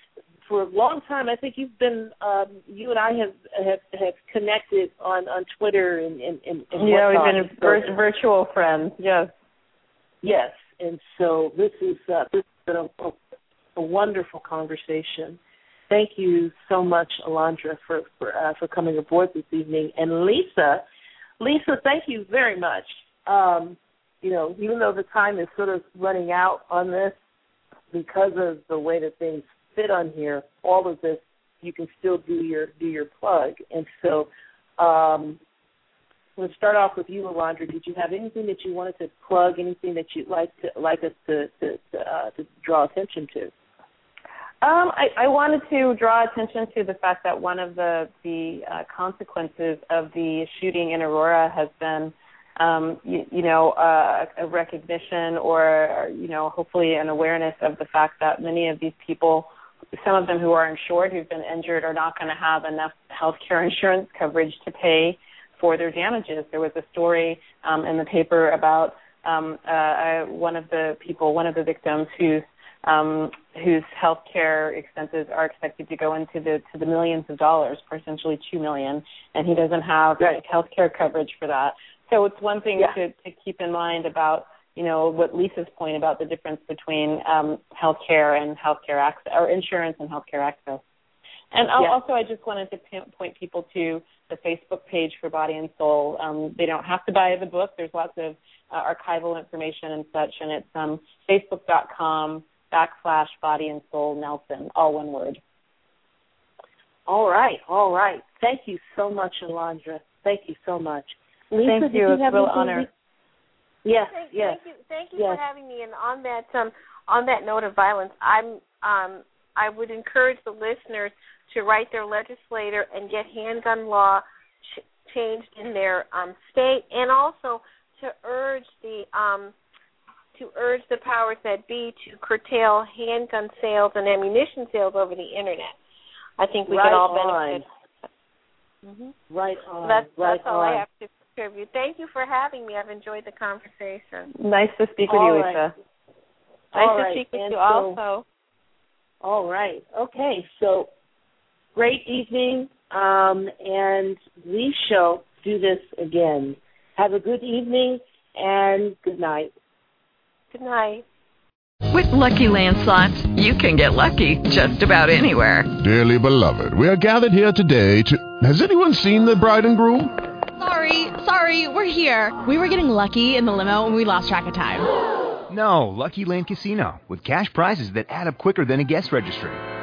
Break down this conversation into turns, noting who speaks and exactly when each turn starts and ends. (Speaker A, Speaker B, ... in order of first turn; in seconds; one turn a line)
Speaker A: 0.5-7.9
Speaker B: 6.8-9.3
Speaker A: 10.2-13.2
Speaker A: 13.8-20.8
Speaker A: 21.4-27.2
Speaker A: 27.9-35.4
Speaker A: 36.4-43.5
Speaker B: 44.6-90.8
Speaker B: 91.5-105.4
Speaker A: 107.1-112.9
Speaker B: 111.6-112.9
Speaker A: 113.8-114.6
Speaker C: 114.0-129.5
Speaker A: 115.2-115.4
Speaker C: 130.3-135.8
Speaker C: 136.4-137.7
Speaker A: 136.7-137.6
Speaker A: 139.3-140.8
Speaker C: 139.8-144.3
Speaker B: 144.3-145.7
Speaker A: 145.1-145.6
Speaker A: 146.7-148.0
Speaker C: 146.7-148.2
Speaker A: 149.2-150.9
Speaker A: 151.8-159.5
Speaker C: 160.5-161.0
Speaker D: 161.9-165.7
Speaker E: 165.8-170.2
Speaker F: 170.6-174.9
Speaker G: 175.5-179.6